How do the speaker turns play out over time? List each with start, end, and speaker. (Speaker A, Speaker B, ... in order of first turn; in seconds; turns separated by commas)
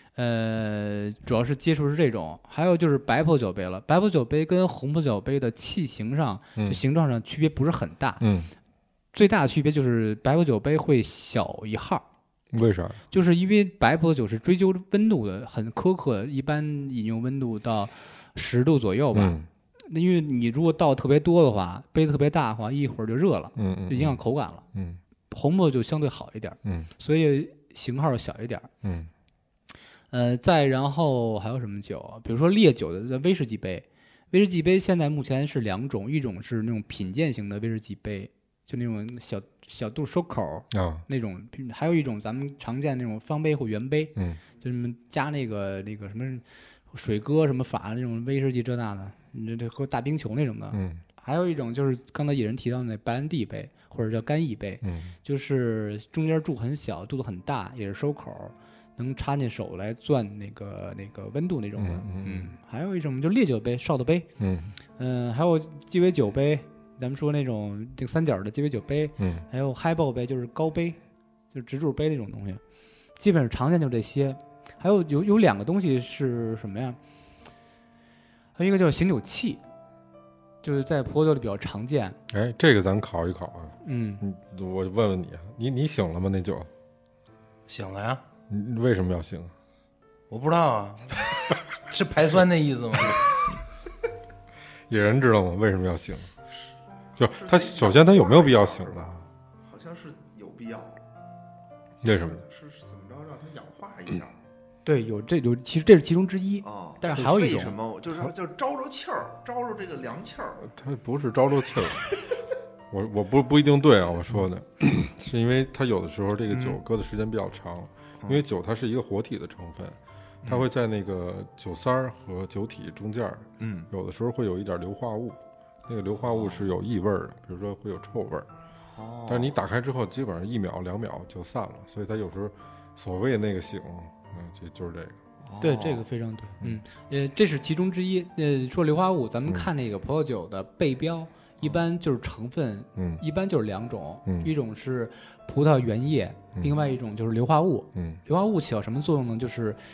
Speaker A: 0.1-8.2, Speaker B: 8.2-8.5, Speaker A: 9.1-12.0, Speaker B: 12.5-13.0, Speaker A: 13.1-24.6, Speaker B: 19.1-19.5, Speaker B: 23.6-24.2, Speaker B: 24.7-25.0, Speaker A: 25.3-28.7, Speaker B: 26.6-26.9, Speaker B: 28.8-29.1, Speaker A: 30.1-64.3, Speaker B: 40.7-41.0, Speaker B: 50.7-51.0, Speaker B: 54.8-55.1, Speaker B: 61.8-62.5, Speaker B: 64.4-64.7, Speaker A: 65.0-71.0, Speaker B: 69.2-69.4, Speaker A: 71.5-72.6, Speaker A: 73.2-77.0, Speaker A: 78.5-79.6, Speaker A: 80.6-82.2, Speaker B: 82.3-86.7, Speaker A: 83.8-84.2, Speaker C: 87.7-88.2, Speaker B: 88.5-89.5, Speaker C: 90.3-91.3, Speaker C: 91.9-93.3, Speaker B: 94.9-96.3, Speaker B: 97.2-99.2, Speaker D: 97.2-101.0, Speaker B: 102.0-102.4, Speaker D: 102.2-104.4, Speaker A: 104.8-107.8, Speaker D: 106.6-110.7, Speaker B: 110.6-112.1, Speaker B: 112.9-128.5, Speaker D: 116.5-116.8, Speaker D: 123.6-123.9, Speaker D: 126.3-126.7, Speaker D: 128.9-129.5, Speaker B: 129.3-135.2, Speaker D: 135.4-136.0, Speaker A: 135.6-149.8, Speaker B: 143.0-143.2, Speaker B: 147.9-148.2